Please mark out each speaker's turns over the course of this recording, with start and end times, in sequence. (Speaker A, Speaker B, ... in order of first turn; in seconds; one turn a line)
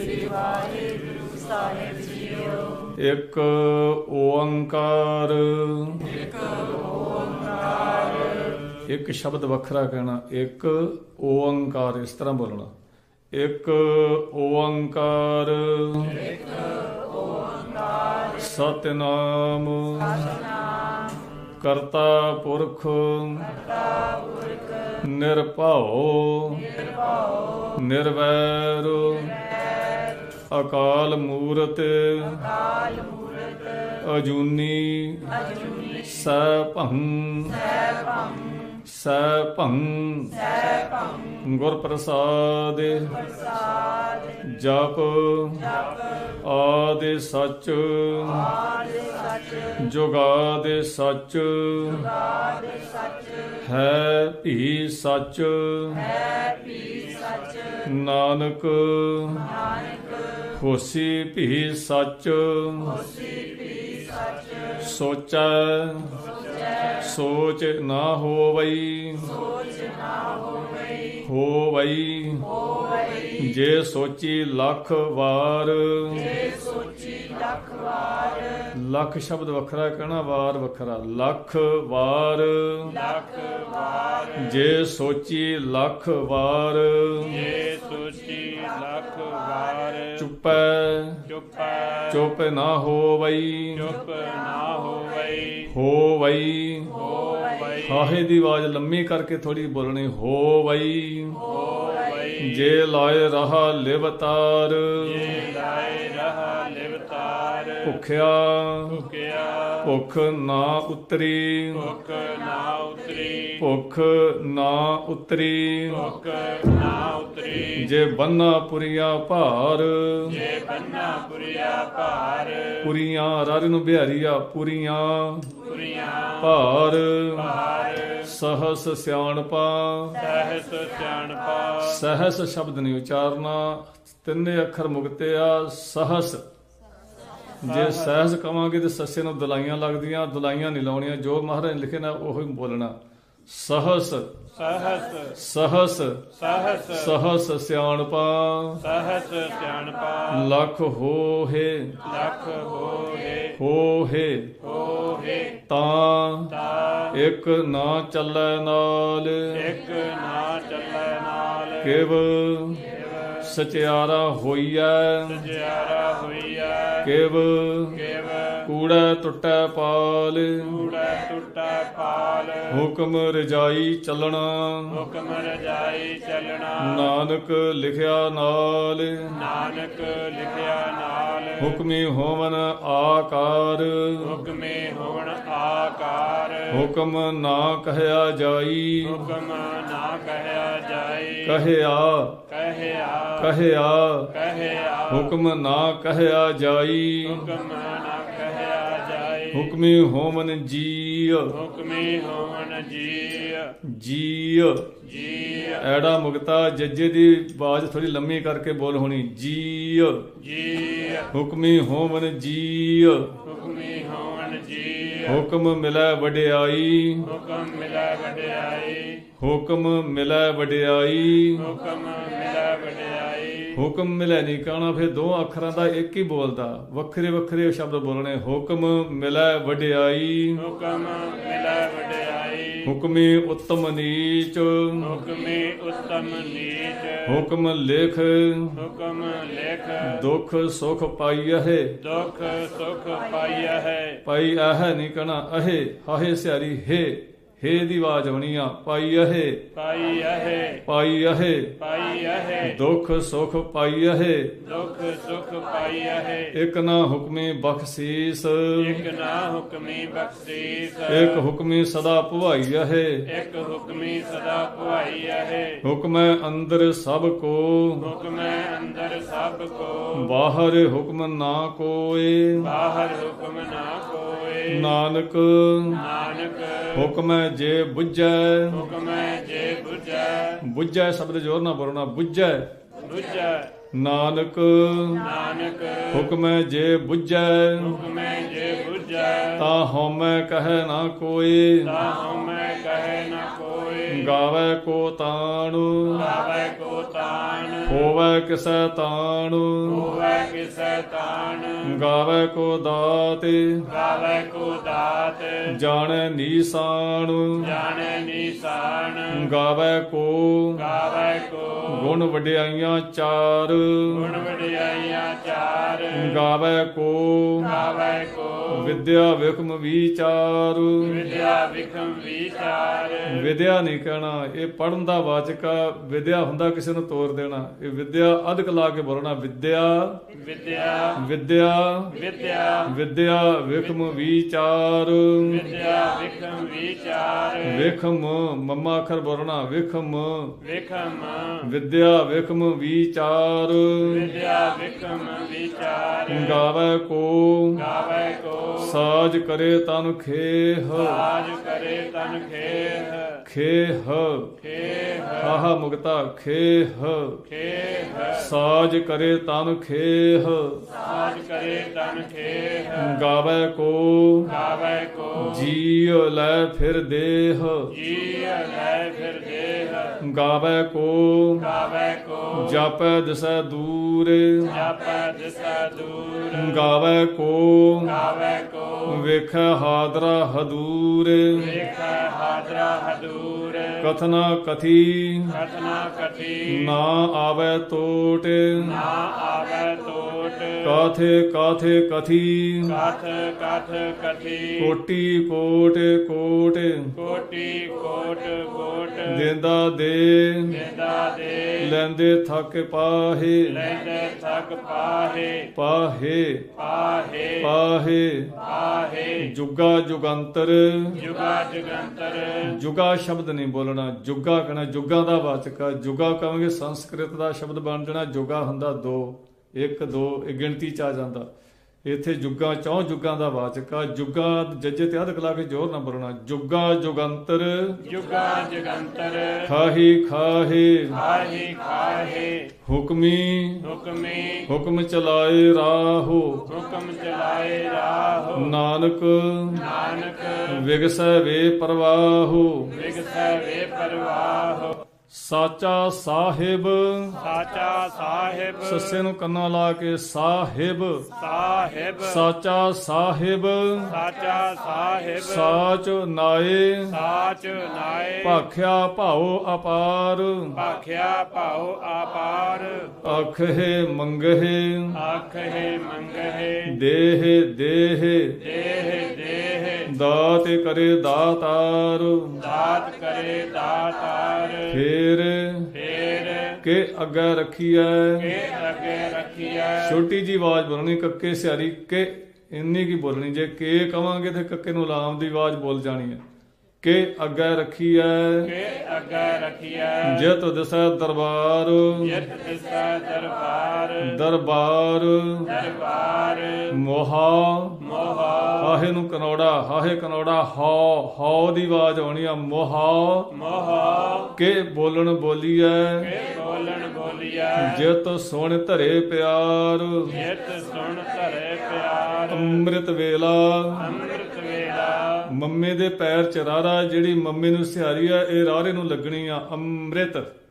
Speaker A: 2.8-6.3
Speaker A: 8.7-12.7
Speaker A: 13.3-16.3
Speaker A: 18.3-20.4
Speaker A: 21.6-23.6
Speaker A: 25.0-26.8
Speaker A: 27.6-29.5
Speaker A: 30.5-32.7
Speaker A: 34.0-37.8
Speaker A: 38.7-40.5
Speaker A: 41.4-43.3
Speaker A: 44.4-45.8
Speaker A: 46.4-48.7
Speaker A: 49.6-52.2
Speaker A: 53.6-56.2
Speaker B: 56.2-57.9
Speaker A: 57.8-59.6
Speaker A: 60.5-63.2
Speaker B: 63.2-64.7
Speaker A: 64.7-66.3
Speaker B: 66.4-66.7
Speaker A: 66.9-69.5
Speaker A: 71.2-72.6
Speaker A: 73.3-76.4
Speaker B: 76.3-77.5
Speaker A: 78.7-83.0
Speaker B: 82.8-84.7
Speaker A: 84.4-87.5
Speaker B: 87.2-90.3
Speaker A: 90.2-91.3
Speaker B: 91.3-92.3
Speaker A: 92.1-93.9
Speaker B: 93.7-95.7
Speaker A: 95.7-97.0
Speaker B: 96.9-98.2
Speaker A: 97.8-101.5
Speaker B: 101.4-102.8
Speaker A: 102.4-105.4
Speaker B: 105.0-108.0
Speaker A: 107.8-109.0
Speaker B: 108.9-110.0
Speaker A: 109.8-111.9
Speaker B: 111.7-113.7
Speaker A: 113.6-116.1
Speaker B: 115.9-117.9
Speaker A: 117.8-120.4
Speaker B: 120.3-122.9
Speaker A: 122.8-125.5
Speaker B: 125.7-126.6
Speaker A: 126.4-127.6
Speaker B: 127.3-128.3
Speaker A: 128.2-130.2
Speaker B: 130.2-132.1
Speaker A: 131.8-136.4
Speaker A: 137.6-142.9
Speaker B: 137.6-138.3
Speaker A: 143.5-144.3
Speaker B: 144.5-145.4
Speaker A: 145.3-146.3
Speaker B: 146.3-147.2
Speaker A: 146.9-148.8
Speaker B: 148.8-150.5
Speaker A: 150.3-152.0
Speaker B: 152.0-153.6
Speaker A: 153.6-154.6
Speaker B: 154.6-155.6
Speaker A: 155.7-156.6
Speaker B: 156.5-157.2
Speaker A: 157.1-159.7
Speaker B: 159.5-162.1
Speaker A: 161.8-165.5
Speaker B: 162.8-163.6
Speaker B: 165.3-167.1
Speaker A: 167.0-168.0
Speaker B: 167.9-168.7
Speaker A: 168.6-170.8
Speaker B: 170.6-172.8
Speaker A: 172.7-175.0
Speaker B: 174.9-177.1
Speaker A: 176.8-179.4
Speaker B: 179.3-181.8
Speaker A: 181.6-184.4
Speaker B: 184.2-186.9
Speaker A: 186.7-189.3
Speaker B: 189.0-191.6
Speaker A: 191.4-192.4
Speaker B: 192.5-193.6
Speaker A: 193.4-194.3
Speaker B: 194.3-195.3
Speaker A: 195.1-197.5
Speaker B: 197.2-199.8
Speaker A: 199.5-201.6
Speaker B: 201.5-203.8
Speaker A: 203.8-204.9
Speaker B: 205.0-205.9
Speaker A: 205.8-210.3
Speaker B: 210.4-211.3
Speaker A: 211.3-213.4
Speaker B: 213.4-215.4
Speaker A: 215.3-217.3
Speaker B: 217.2-219.3
Speaker A: 219.4-221.7
Speaker B: 221.6-223.8
Speaker A: 223.7-230.6
Speaker B: 230.6-232.9
Speaker A: 232.8-235.2
Speaker B: 235.0-237.5
Speaker A: 237.2-238.8
Speaker B: 238.8-240.3
Speaker A: 240.0-242.0
Speaker B: 242.0-244.2
Speaker A: 244.2-249.7
Speaker B: 249.7-250.8
Speaker A: 250.8-251.8
Speaker B: 251.8-252.8
Speaker A: 252.6-254.6
Speaker B: 254.6-256.6
Speaker A: 256.5-259.1
Speaker B: 258.8-261.5
Speaker A: 261.1-263.3
Speaker B: 263.3-265.8
Speaker A: 265.8-268.1
Speaker B: 268.0-270.3
Speaker A: 270.1-272.7
Speaker B: 272.6-274.9
Speaker A: 274.7-276.0
Speaker B: 275.9-277.1
Speaker A: 276.9-278.9
Speaker B: 278.7-280.6
Speaker A: 280.6-282.7
Speaker B: 283.0-283.7
Speaker A: 283.9-285.3
Speaker B: 285.2-286.3
Speaker A: 286.1-288.0
Speaker B: 287.8-289.7
Speaker A: 289.6-292.0
Speaker B: 291.8-294.4
Speaker A: 294.1-296.3
Speaker B: 296.1-298.1
Speaker A: 297.9-300.2
Speaker B: 299.8-302.0
Speaker A: 301.8-303.9
Speaker B: 303.9-305.8
Speaker A: 305.7-307.8
Speaker B: 307.6-309.5
Speaker A: 309.3-310.9
Speaker B: 310.8-312.2
Speaker A: 311.9-314.4
Speaker B: 314.1-316.4
Speaker A: 316.1-317.8
Speaker B: 317.6-319.1
Speaker A: 318.7-321.4
Speaker B: 321.0-323.5
Speaker A: 323.3-330.2
Speaker B: 330.3-331.2
Speaker A: 331.2-332.2
Speaker B: 332.1-332.9
Speaker A: 332.9-335.7
Speaker B: 335.4-337.9
Speaker A: 337.6-340.6
Speaker B: 340.6-341.7
Speaker A: 341.6-344.3
Speaker B: 344.0-346.6
Speaker A: 346.3-347.9
Speaker B: 347.8-349.0
Speaker A: 348.8-351.3
Speaker B: 350.9-353.5
Speaker A: 353.4-354.6
Speaker B: 354.6-355.6
Speaker A: 355.4-357.4
Speaker B: 357.5-358.5
Speaker A: 358.3-360.9
Speaker B: 360.9-363.2
Speaker A: 362.9-364.6
Speaker B: 364.5-365.7
Speaker A: 365.4-367.9
Speaker B: 367.9-370.2
Speaker A: 370.2-371.7
Speaker B: 371.6-372.8
Speaker A: 372.5-374.8
Speaker B: 374.7-376.9
Speaker A: 376.5-378.2
Speaker B: 378.0-379.3
Speaker A: 379.1-381.8
Speaker B: 381.5-384.1
Speaker A: 384.0-385.6
Speaker B: 385.5-386.9
Speaker A: 386.7-389.0
Speaker B: 388.8-391.0
Speaker A: 390.8-393.0
Speaker B: 392.9-394.9
Speaker A: 394.8-397.1
Speaker B: 397.2-399.5
Speaker A: 399.3-400.8
Speaker B: 400.7-401.9
Speaker A: 401.8-403.9
Speaker B: 403.7-405.7
Speaker A: 405.7-406.7
Speaker B: 406.8-407.7
Speaker A: 407.6-408.6
Speaker B: 408.6-409.5
Speaker A: 409.4-411.2
Speaker B: 411.1-412.8
Speaker A: 412.6-421.5
Speaker A: 422.1-428.0
Speaker B: 428.0-429.7
Speaker A: 429.6-431.2
Speaker B: 431.1-432.7
Speaker A: 432.8-433.9
Speaker B: 433.8-434.7
Speaker A: 434.7-436.7
Speaker B: 436.7-438.8
Speaker A: 438.5-439.9
Speaker B: 439.7-440.8
Speaker A: 440.7-442.9
Speaker B: 442.9-445.0
Speaker A: 445.3-447.4
Speaker B: 447.4-449.2
Speaker A: 448.8-451.3
Speaker B: 451.4-452.4
Speaker A: 452.2-454.2
Speaker B: 454.1-455.8
Speaker A: 455.4-457.2
Speaker B: 457.1-458.6
Speaker A: 458.4-460.8
Speaker B: 460.8-463.4
Speaker A: 463.2-465.2
Speaker B: 465.1-467.0
Speaker A: 466.8-468.6
Speaker B: 468.6-470.1
Speaker A: 470.1-472.6
Speaker B: 472.6-475.0
Speaker A: 474.9-475.9
Speaker B: 475.9-476.8
Speaker A: 476.8-478.6
Speaker B: 478.4-480.2
Speaker A: 480.0-486.4
Speaker A: 487.0-488.8
Speaker B: 488.6-490.5
Speaker A: 490.2-492.4
Speaker B: 492.2-494.4
Speaker A: 494.2-495.9
Speaker B: 495.7-497.0
Speaker A: 496.9-498.0
Speaker B: 498.0-499.0
Speaker A: 498.8-503.5
Speaker B: 503.5-504.6
Speaker A: 504.5-506.3
Speaker B: 506.2-508.1
Speaker A: 507.8-510.4
Speaker B: 510.3-512.9
Speaker A: 512.5-514.2
Speaker B: 514.0-515.5
Speaker A: 515.5-520.5